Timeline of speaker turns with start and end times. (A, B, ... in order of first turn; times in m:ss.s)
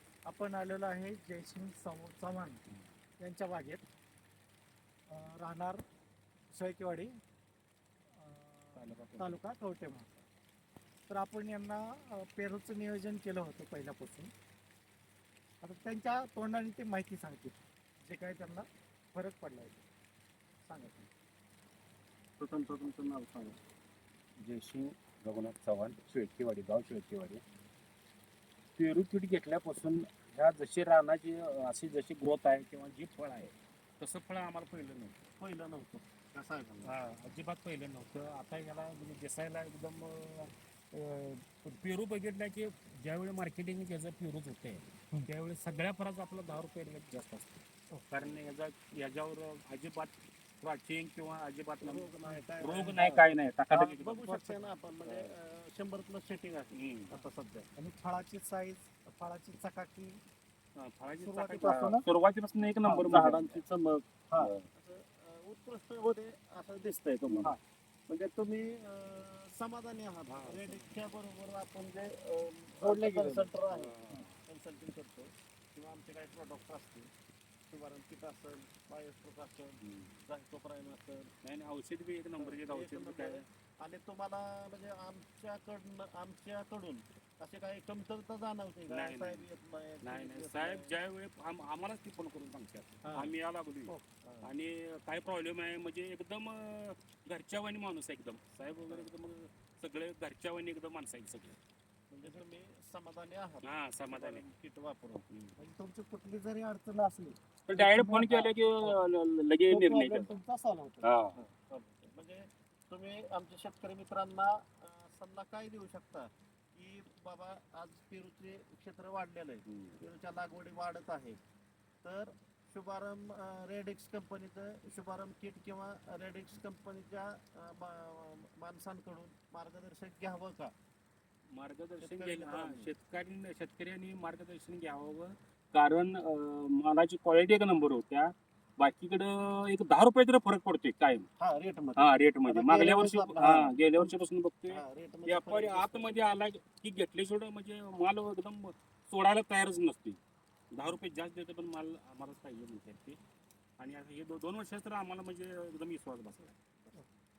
0:00.3-0:02.6 A
0:03.2-0:03.8 A
0:05.1-0:05.8 A
0:06.5-0:07.1 A
0:08.2-0:10.2 A
0:08.8-0:09.4 B
0:11.1-0:14.3 A
0:15.6-0:19.8 A
0:20.6-0:21.1 A
0:22.4-0:23.6 B
0:24.4-0:27.4 B
0:28.8-0:35.2 B
0:35.4-0:37.0 C
0:36.8-0:52.1 B
0:51.8-0:57.7 C
0:52.6-0:54.3 B
0:54.3-0:54.7 A
0:55.0-0:55.3 B
0:56.7-0:57.1 B
0:57.1-1:00.2 A
1:00.8-1:03.5 B
1:01.2-1:02.0 A
1:02.8-1:07.6 C
1:04.4-1:04.6 B
1:07.3-1:07.5 B
1:08.1-1:17.1 C
1:10.3-1:11.0 B
1:12.9-1:14.3 B
1:17.7-1:21.3 C
1:19.8-1:20.2 B
1:21.4-1:23.4 B
1:22.4-1:30.9 C
1:28.9-1:29.5 B
1:30.0-1:41.6 B
1:33.0-1:33.3 C
1:34.2-1:34.5 C
1:38.8-1:39.1 C
1:42.1-1:45.2 C
1:43.6-1:44.4 B
1:45.3-1:45.6 B
1:45.6-1:49.0 A
1:47.7-1:50.3 B
1:49.7-1:51.1 A
1:51.0-1:51.4 B
1:51.4-2:01.4 C
1:59.7-2:00.0 B
2:02.0-2:10.7 C
2:11.5-2:21.3 B
2:12.0-2:12.9 C
2:21.4-2:24.1 C
2:22.0-2:30.2 B
2:24.7-2:26.3 C
2:30.7-2:33.2 B
2:33.8-2:36.6 B